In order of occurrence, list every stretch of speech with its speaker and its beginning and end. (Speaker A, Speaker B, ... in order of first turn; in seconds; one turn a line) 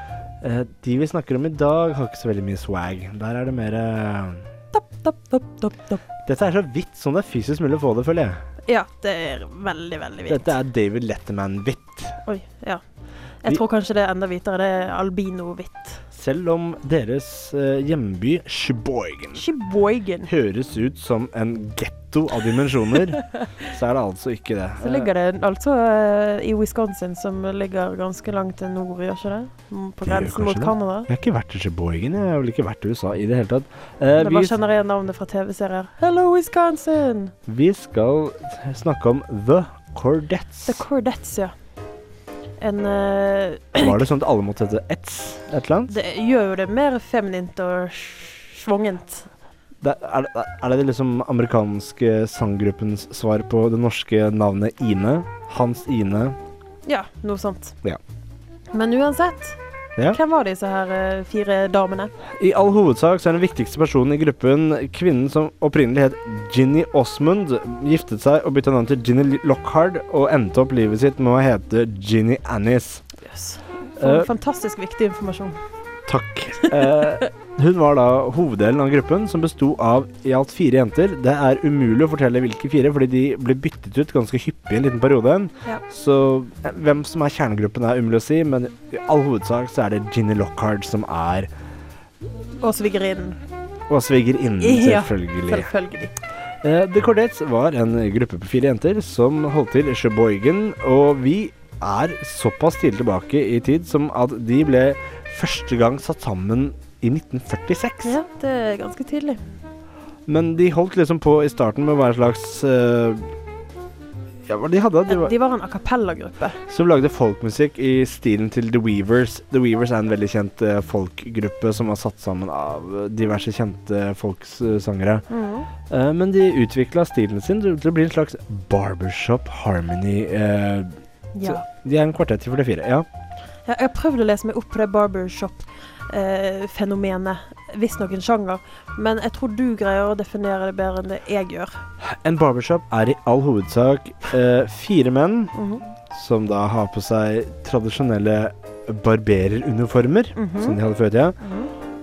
Speaker A: 0.4-4.5
Speaker B: 4.7-6.0
Speaker A: 6.2-8.4
Speaker B: 8.7-10.5
Speaker A: 10.3-12.2
Speaker B: 12.2-12.8
Speaker B: 13.4-16.0
Speaker A: 16.1-19.4
Speaker B: 19.3-20.3
Speaker A: 20.2-25.1
Speaker B: 24.8-31.1
Speaker A: 30.0-34.5
Speaker B: 34.1-37.3
Speaker A: 37.5-40.8
Speaker B: 40.7-41.5
Speaker B: 42.6-44.0
Speaker A: 43.8-45.9
Speaker B: 45.9-49.3
Speaker A: 49.8-56.4
Speaker B: 56.8-57.8
Speaker B: 58.7-59.6
Speaker B: 60.1-62.1
Speaker A: 62.4-73.0
Speaker B: 73.2-75.6
Speaker A: 74.0-74.3
Speaker A: 76.1-91.5
Speaker B: 76.7-77.2
Speaker B: 92.6-93.4
Speaker A: 93.9-95.7
Speaker B: 94.6-96.1
Speaker A: 96.6-108.2
Speaker B: 108.0-109.4
Speaker A: 110.3-113.3
Speaker A: 114.5-115.3
Speaker B: 115.1-116.6
Speaker A: 116.7-125.2
Speaker B: 125.3-125.7
Speaker A: 125.9-133.1
Speaker B: 131.3-131.6
Speaker B: 133.7-141.8
Speaker A: 142.0-145.5
Speaker B: 145.5-145.8
Speaker A: 146.1-151.3
Speaker B: 150.3-150.8
Speaker B: 151.4-151.7